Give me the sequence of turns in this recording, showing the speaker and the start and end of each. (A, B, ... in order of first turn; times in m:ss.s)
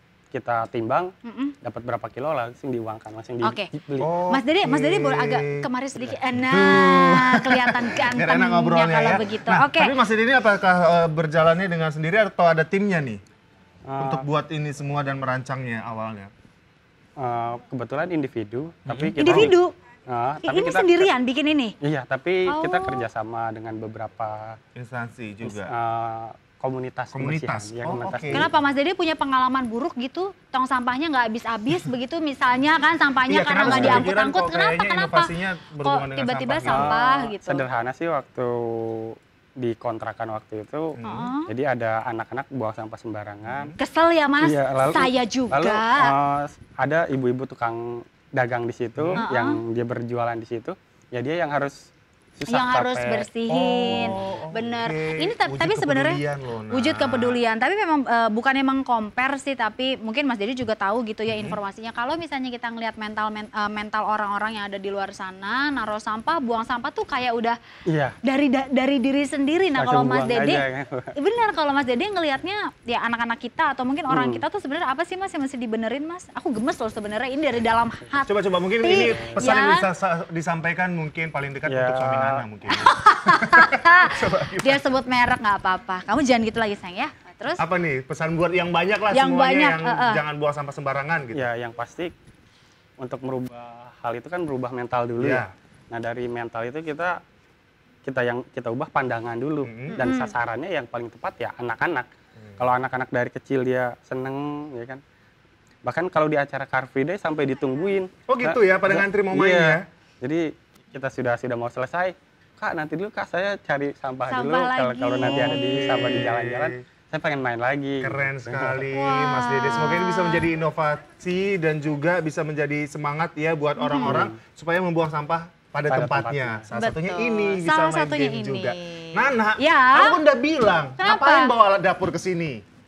0:00.3-0:01.1 A
0:01.2-0:01.5 B
0:01.6-0:04.1 A
0:03.4-0:03.7 B
0:04.0-0:05.7 C
0:04.3-0:09.9 B
0:05.9-0:06.2 A
0:06.4-0:13.2 C
0:13.9-0:14.3 A
0:14.0-0:16.3 C
0:17.2-0:19.6 A
0:18.9-0:19.6 C
0:19.2-0:19.7 B
0:20.1-0:21.1 A
0:20.4-0:21.7 B
0:21.8-0:24.6 A
0:22.5-0:23.0 B
0:24.7-0:25.7 C
0:25.4-0:28.5 A
0:27.1-0:28.5 C
0:28.3-0:35.3 B
0:33.3-0:37.0 C
0:33.6-0:34.1 A
0:35.8-0:37.6 B
0:36.6-0:40.9 A
0:41.0-0:41.3 C
0:41.0-0:41.5 B
0:41.5-0:43.7 A
0:43.4-0:43.8 C
0:43.8-0:46.1 B
0:44.4-0:51.8 A
0:49.0-0:49.2 C
0:49.2-0:49.6 B
0:52.4-0:53.3 A
0:52.5-1:07.6 B
0:53.5-0:57.4 C
1:01.3-1:01.6 C
1:07.9-1:08.2 A
1:08.2-1:10.6 B
1:09.8-1:11.1 A
1:11.2-1:19.9 B
1:14.1-1:14.4 A
1:18.2-1:24.8 C
1:18.9-1:19.4 A
1:21.7-1:22.4 A
1:22.7-1:27.6 B
1:27.6-1:31.4 C
1:29.1-1:30.2 B
1:31.3-1:32.1 A
1:33.0-1:37.2 A
1:35.2-1:35.5 C
1:38.0-1:42.1 A
1:39.6-1:40.0 C
1:40.0-1:40.3 B
1:42.6-1:45.0 A
1:45.8-1:58.8 A
1:48.3-1:49.8 C
1:54.3-1:55.5 B
1:55.2-1:56.7 C
1:58.0-2:12.6 C
1:58.9-2:00.5 B
2:03.8-2:04.2 B
2:04.0-2:04.4 A
2:05.9-2:06.6 A
2:06.7-2:10.2 B
2:11.0-2:11.5 B